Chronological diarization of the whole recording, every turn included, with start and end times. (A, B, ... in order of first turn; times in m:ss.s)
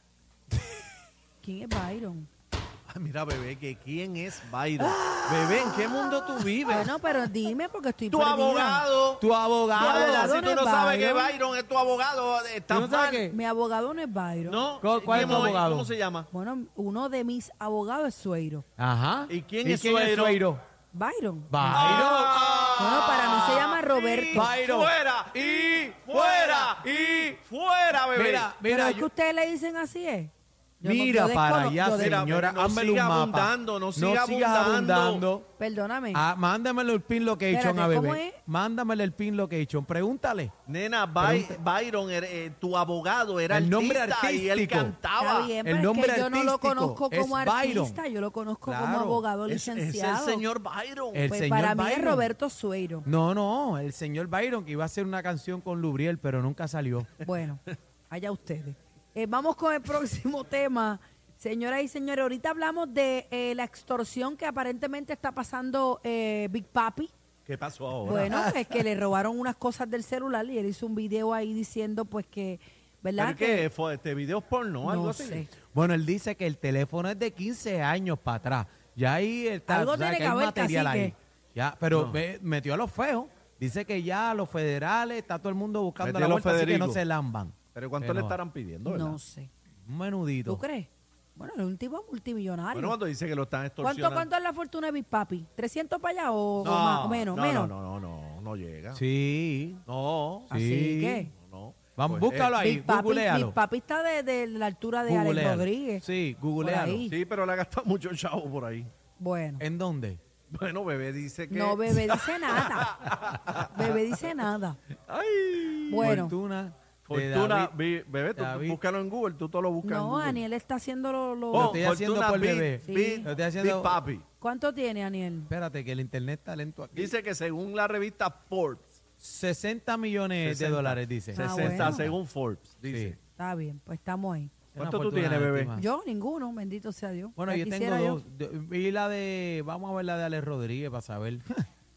0:01.4-0:02.3 A
0:02.9-0:06.9 B
0:04.8-0:06.9 C
0:06.7-0:08.8 A
0:08.1-0:13.3 B
0:09.2-0:10.3 C
0:09.7-0:11.3 A
0:12.7-0:13.4 C
0:13.3-0:15.6 A
0:14.4-0:16.3 B
0:14.8-0:15.9 C
0:16.3-0:18.6 A
0:18.8-0:20.6 C
0:19.3-0:20.4 B
0:20.9-0:22.1 A
0:21.5-0:22.8 C
0:21.7-0:28.5 B
0:22.8-0:24.5 A
0:24.3-0:27.4 C
0:28.0-0:29.1 C
0:28.6-0:32.2 A
0:30.8-0:35.5 C
0:31.9-0:35.2 B
0:35.6-0:36.2 A
0:36.1-0:40.5 C
0:37.5-0:38.4 A
0:40.7-0:45.5 B
0:41.2-0:41.6 C
0:43.5-0:45.0 C
0:45.2-0:50.4 A
0:45.6-0:48.0 C
0:48.6-0:49.2 C
0:49.5-0:51.3 B
0:51.1-0:52.3 C
0:51.3-0:53.1 A
0:53.0-0:57.1 C
0:57.2-1:07.1 A
1:07.4-1:08.4 B
1:08.0-1:08.8 C
1:08.0-1:13.6 A
1:13.2-1:15.4 B
1:14.8-1:15.5 A
1:15.7-1:28.4 C
1:19.7-1:21.1 A
1:21.9-1:22.2 B
1:26.0-1:27.0 B
1:27.7-1:29.2 B
1:28.9-1:29.5 A
1:29.8-1:30.6 C
1:30.4-1:33.0 A
1:32.7-1:34.3 B
1:33.8-1:37.7 A
1:36.6-1:39.0 B
1:38.9-1:39.8 C
1:39.8-1:40.5 B
1:40.5-1:41.3 A
1:40.5-1:41.3 C
1:41.4-1:42.6 B
1:42.0-1:43.6 C
1:42.6-1:46.0 A
1:45.0-1:47.1 C
1:46.6-1:47.1 A
1:47.1-1:48.9 B
1:49.2-1:49.6 A
1:49.6-1:50.2 C
1:50.5-1:54.0 B
1:51.5-1:52.9 A
1:53.6-1:54.8 A
1:55.1-1:56.1 B
1:55.9-1:56.4 A
1:56.0-1:57.7 C
1:57.1-2:00.4 B
1:58.4-1:58.8 C
1:59.8-2:01.8 A
2:01.5-2:04.0 C
2:01.5-2:04.2 B
2:02.8-2:03.3 A
2:04.4-2:05.5 A
2:05.5-2:07.1 C
2:06.9-2:08.9 B
2:09.2-2:12.2 C
2:10.4-2:13.2 B
2:11.3-2:12.1 A
2:12.8-2:13.2 C
2:13.4-2:14.5 A
2:14.7-2:15.7 B
2:14.7-2:15.9 C
2:15.7-2:18.2 A
2:17.4-2:21.4 C